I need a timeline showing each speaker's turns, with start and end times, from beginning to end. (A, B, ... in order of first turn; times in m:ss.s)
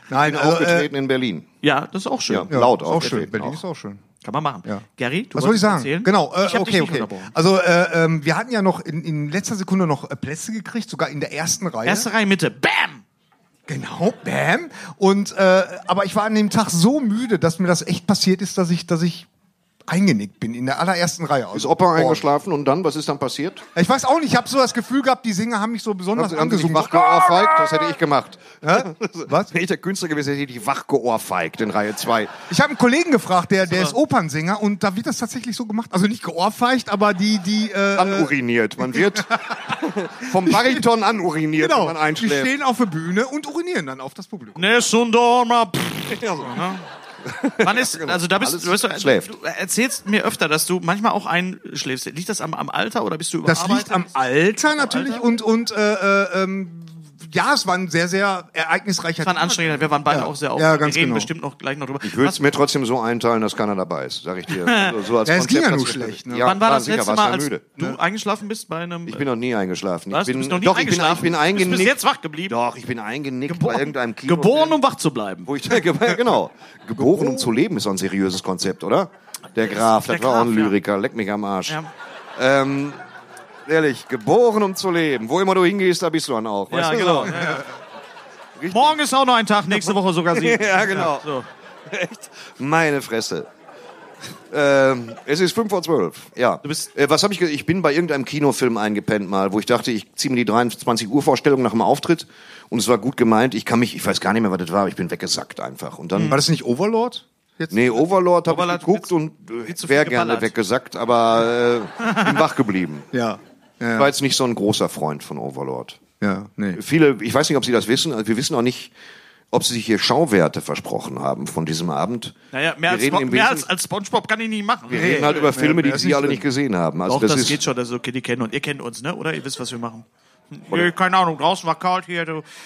0:00.1-0:00.9 A
0:00.2-0:01.5 B
0:01.6-0:03.1 C
0:02.3-0:03.6 B
0:02.5-0:04.0 A
0:04.2-0:07.3 C
0:04.6-0:12.1 A
0:11.8-0:13.0 C
0:13.7-0:19.3 A
0:19.9-0:22.3 A
0:21.5-0:23.6 B
0:23.8-0:27.9 A
0:26.2-0:32.3 B
0:28.6-0:29.5 A
0:32.5-0:39.6 A
0:33.7-0:34.0 C
0:38.0-0:42.5 B
0:40.2-0:40.8 A
0:41.6-0:44.8 A
0:44.6-0:46.8 C
0:46.1-0:46.6 B
0:47.2-0:49.3 B
0:47.6-0:54.1 C
0:53.4-1:01.3 A
0:54.8-0:55.2 C
0:59.2-1:02.4 C
1:02.0-1:07.6 B
1:04.5-1:05.0 C
1:05.2-1:06.6 A
1:06.4-1:09.3 C
1:09.1-1:12.0 B
1:10.1-1:12.6 C
1:12.5-1:14.8 B
1:13.5-1:15.5 C
1:15.4-1:21.8 B
1:17.0-1:17.5 A
1:19.6-1:20.8 C
1:22.4-1:23.0 B
1:23.7-1:27.6 B
1:26.7-1:27.7 C
1:28.6-1:29.0 B
1:28.7-1:31.5 C
1:29.8-1:31.3 B
1:31.9-1:33.5 B
1:34.5-1:46.4 B
1:36.6-1:36.9 C
1:46.2-1:46.4 C
1:46.3-1:48.1 A
1:47.7-1:53.1 B
1:48.5-1:50.5 C
1:52.0-1:52.3 C
1:53.1-1:54.1 A
1:54.0-1:56.0 B
1:56.2-1:56.8 A
1:56.8-1:58.9 B
1:59.5-2:03.7 B
2:02.5-2:05.6 C
2:04.9-2:07.6 B
2:04.9-2:06.5 A
2:07.1-2:12.4 C